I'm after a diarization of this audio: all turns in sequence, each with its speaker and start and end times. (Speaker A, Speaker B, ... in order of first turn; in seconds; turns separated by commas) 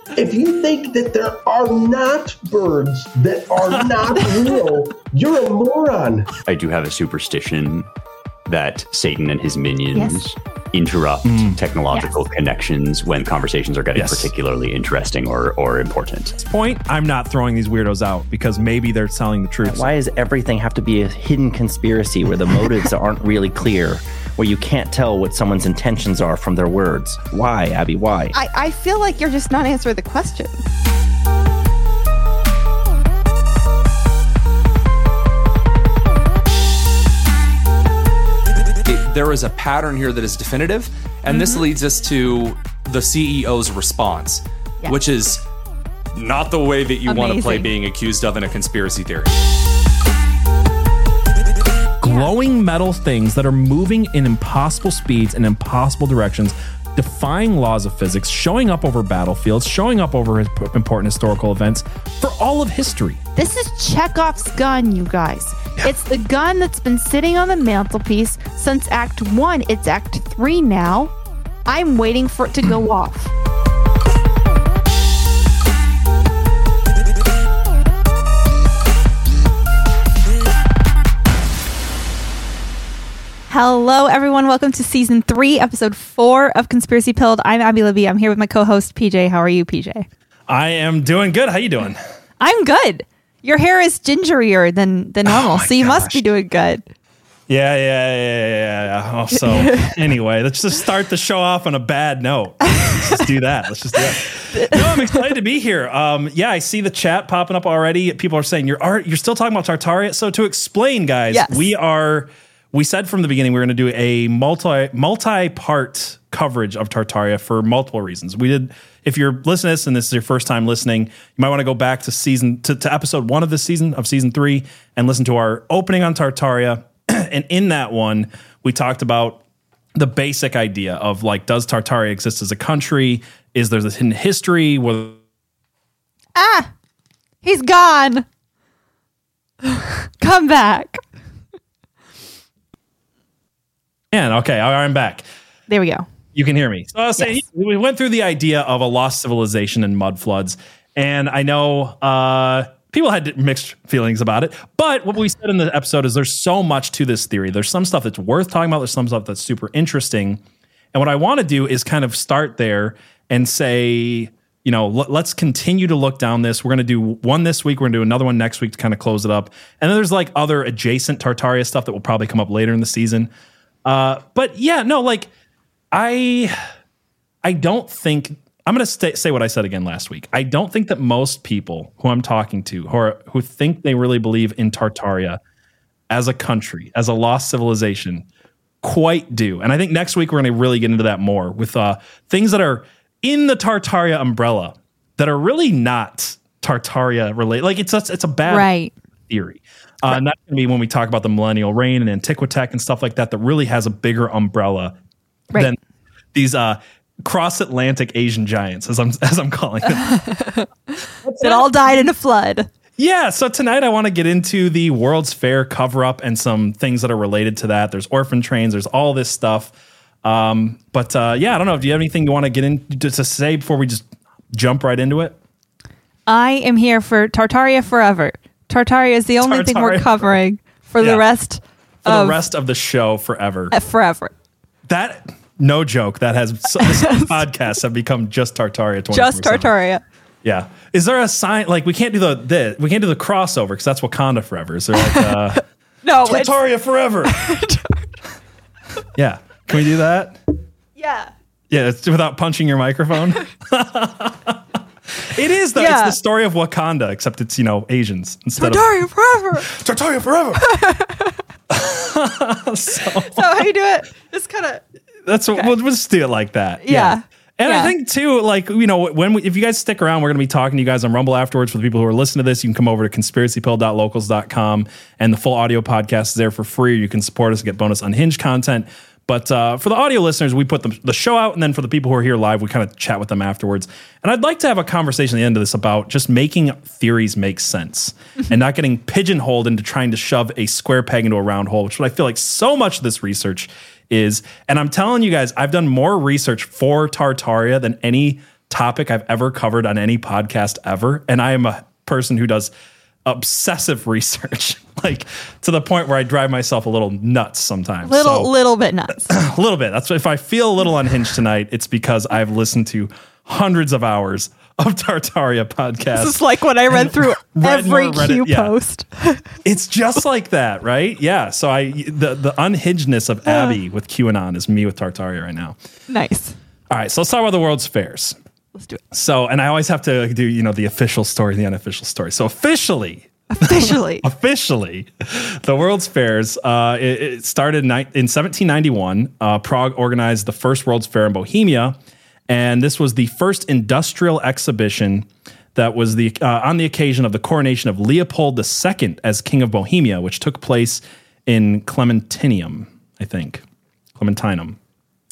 Speaker A: 0.2-6.3, Speaker B: 6.5-7.9, Speaker B: 8.5-16.3, Speaker C: 9.9-10.2, Speaker D: 11.2-11.6, Speaker D: 13.9-14.3, Speaker D: 16.4-19.9, Speaker E: 19.6-28.4, Speaker C: 28.3-30.6, Speaker F: 38.9-45.4, Speaker C: 41.3-41.7, Speaker F: 46.2-49.3, Speaker C: 47.1-47.7, Speaker D: 52.0-63.2, Speaker C: 63.4-71.1, Speaker C: 71.7-73.3, Speaker C: 83.5-90.1, Speaker D: 90.5-92.0, Speaker C: 92.4-96.8, Speaker D: 95.3-96.3, Speaker D: 97.5-129.4, Speaker C: 99.3-99.9, Speaker C: 104.5-105.2, Speaker C: 111.3-111.7, Speaker D: 129.9-135.2, Speaker C: 136.4-136.7, Speaker C: 137.4-138.3, Speaker C: 139.7-141.0, Speaker D: 144.1-145.2, Speaker C: 145.7-146.1, Speaker D: 146.3-160.4, Speaker D: 160.9-173.3, Speaker D: 173.8-175.3, Speaker D: 175.9-176.6, Speaker D: 177.4-185.4, Speaker D: 186.1-188.3, Speaker D: 188.8-198.7, Speaker C: 198.5-198.9, Speaker D: 199.3-204.9, Speaker D: 206.3-210.2, Speaker C: 209.9-210.7, Speaker D: 211.2-212.0, Speaker C: 211.4-212.7, Speaker D: 213.0-225.4, Speaker C: 226.3-232.4, Speaker D: 229.4-230.4, Speaker D: 231.0-231.3, Speaker D: 232.0-233.7, Speaker C: 233.7-234.3, Speaker D: 234.9-239.7, Speaker C: 236.8-237.4, Speaker C: 239.1-240.0, Speaker D: 240.4-245.6, Speaker C: 245.0-245.3, Speaker C: 246.0-246.6, Speaker D: 246.2-247.4, Speaker C: 247.2-248.1, Speaker D: 249.1-250.4, Speaker C: 251.0-251.3, Speaker D: 251.7-254.6, Speaker D: 255.2-258.9, Speaker C: 255.8-256.2, Speaker C: 258.6-259.7, Speaker D: 259.6-260.6, Speaker C: 260.6-261.4, Speaker D: 261.7-263.7, Speaker C: 263.3-264.8, Speaker D: 265.3-302.7, Speaker C: 266.8-267.9, Speaker D: 303.2-308.5, Speaker C: 308.0-309.4, Speaker D: 309.3-318.7, Speaker C: 316.1-319.4, Speaker D: 319.6-325.8, Speaker C: 323.5-323.8, Speaker C: 326.1-326.6, Speaker D: 326.9-328.4, Speaker C: 328.8-329.0, Speaker D: 329.1-342.0, Speaker C: 333.5-334.2, Speaker D: 342.5-353.6, Speaker D: 354.2-354.8